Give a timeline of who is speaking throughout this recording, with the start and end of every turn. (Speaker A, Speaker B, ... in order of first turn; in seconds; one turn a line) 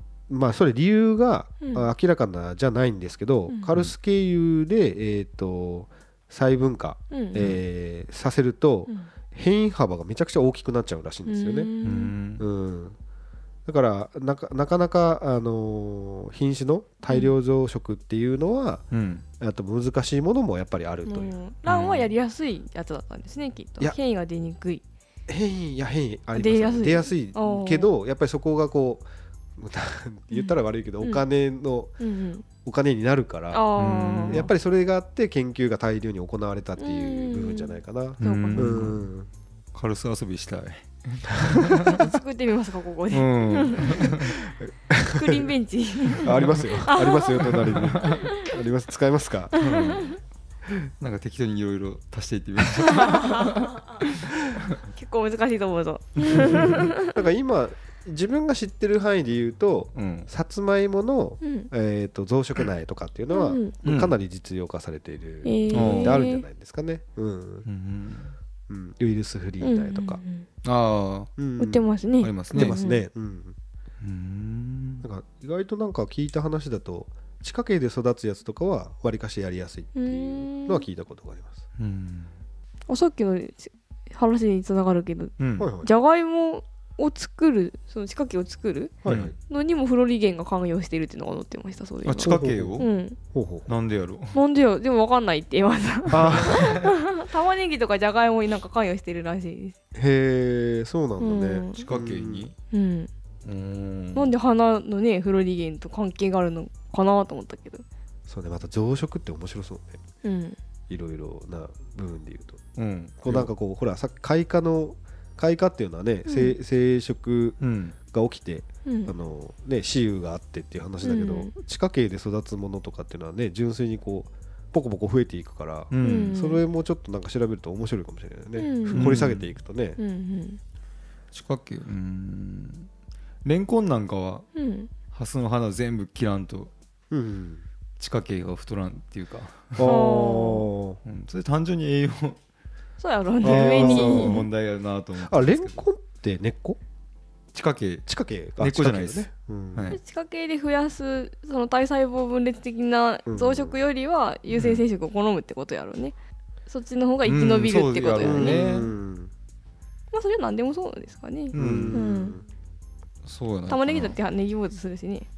Speaker A: 0.3-11.7
Speaker B: 1.6-1.9
Speaker B: 7.1-7.4
Speaker B: 11.3-12.2
Speaker C: 11.8-12.5
Speaker A: 12.4-13.0
Speaker A: 13.7-18.9
Speaker C: 18.9-19.2
Speaker A: 19.4-21.3
Speaker B: 21.1-24.8
Speaker C: 21.7-22.1
Speaker A: 25.3-29.1
Speaker B: 26.4-27.9
Speaker A: 29.6-31.9
Speaker B: 30.3-31.2
Speaker B: 32.0-32.5
Speaker A: 32.6-33.7
Speaker B: 33.5-34.5
Speaker C: 33.8-34.5
Speaker A: 34.3-39.3
Speaker B: 36.8-38.9
Speaker C: 38.2-39.1
Speaker C: 39.7-42.1
Speaker A: 41.4-41.9
Speaker B: 41.9-44.2
Speaker C: 43.1-44.3
Speaker A: 43.9-45.5
Speaker B: 45.1-48.5
Speaker A: 46.2-49.6
Speaker C: 46.2-46.8
Speaker C: 47.4-48.2
Speaker B: 49.5-50.2
Speaker C: 49.6-50.2
Speaker C: 51.0-54.8
Speaker B: 52.9-53.7
Speaker B: 54.9-57.2
Speaker C: 56.2-56.9
Speaker A: 56.3-67.7
Speaker C: 60.0-60.3
Speaker B: 61.4-61.7
Speaker B: 63.3-63.7
Speaker C: 63.8-64.2
Speaker B: 65.4-66.5
Speaker C: 65.7-66.2
Speaker C: 67.7-68.3
Speaker A: 68.7-70.2
Speaker B: 69.6-70.5
Speaker C: 70.6-71.3
Speaker A: 71.4-71.9
Speaker B: 71.6-73.1
Speaker C: 72.2-72.8
Speaker A: 72.5-73.6
Speaker C: 74.0-75.0
Speaker A: 75.0-81.6
Speaker B: 80.0-80.9
Speaker C: 81.8-82.3
Speaker B: 82.9-88.9
Speaker C: 85.4-85.7
Speaker A: 85.6-85.9
Speaker A: 89.0-89.3
Speaker C: 89.1-89.3
Speaker B: 89.5-93.2
Speaker C: 92.0-92.9
Speaker A: 92.2-93.7
Speaker C: 93.7-94.4
Speaker B: 94.3-99.8
Speaker A: 96.1-96.9
Speaker C: 96.2-96.9
Speaker A: 99.9-102.5
Speaker B: 101.2-101.8
Speaker C: 101.8-102.5
Speaker B: 102.7-103.1
Speaker C: 103.5-104.3
Speaker B: 104.2-107.8
Speaker A: 108.3-110.0
Speaker B: 110.2-110.6
Speaker A: 110.9-112.6
Speaker C: 112.8-113.5
Speaker A: 113.2-130.0
Speaker B: 116.3-116.6
Speaker C: 117.6-118.0
Speaker B: 118.9-119.1
Speaker B: 121.0-121.5
Speaker C: 125.9-126.4
Speaker B: 126.0-126.6
Speaker B: 128.6-129.2
Speaker C: 128.9-129.5
Speaker B: 130.0-130.6
Speaker C: 131.3-132.9
Speaker C: 133.4-134.5
Speaker B: 134.6-134.9
Speaker C: 135.1-136.7
Speaker A: 137.1-137.7
Speaker C: 138.0-139.9
Speaker A: 139.8-141.0
Speaker B: 139.8-140.7
Speaker C: 141.1-142.4
Speaker B: 143.0-144.4
Speaker A: 143.4-144.5
Speaker C: 143.4-145.8
Speaker A: 145.2-146.8
Speaker C: 147.5-148.1
Speaker A: 148.1-150.0
Speaker C: 148.6-150.0
Speaker B: 149.9-156.1
Speaker A: 153.3-153.8
Speaker C: 154.5-154.8
Speaker B: 156.7-158.9
Speaker C: 157.2-158.9
Speaker A: 158.2-159.3
Speaker B: 160.1-162.4
Speaker C: 161.5-162.0
Speaker A: 161.6-162.4
Speaker C: 163.2-164.2
Speaker B: 163.7-165.3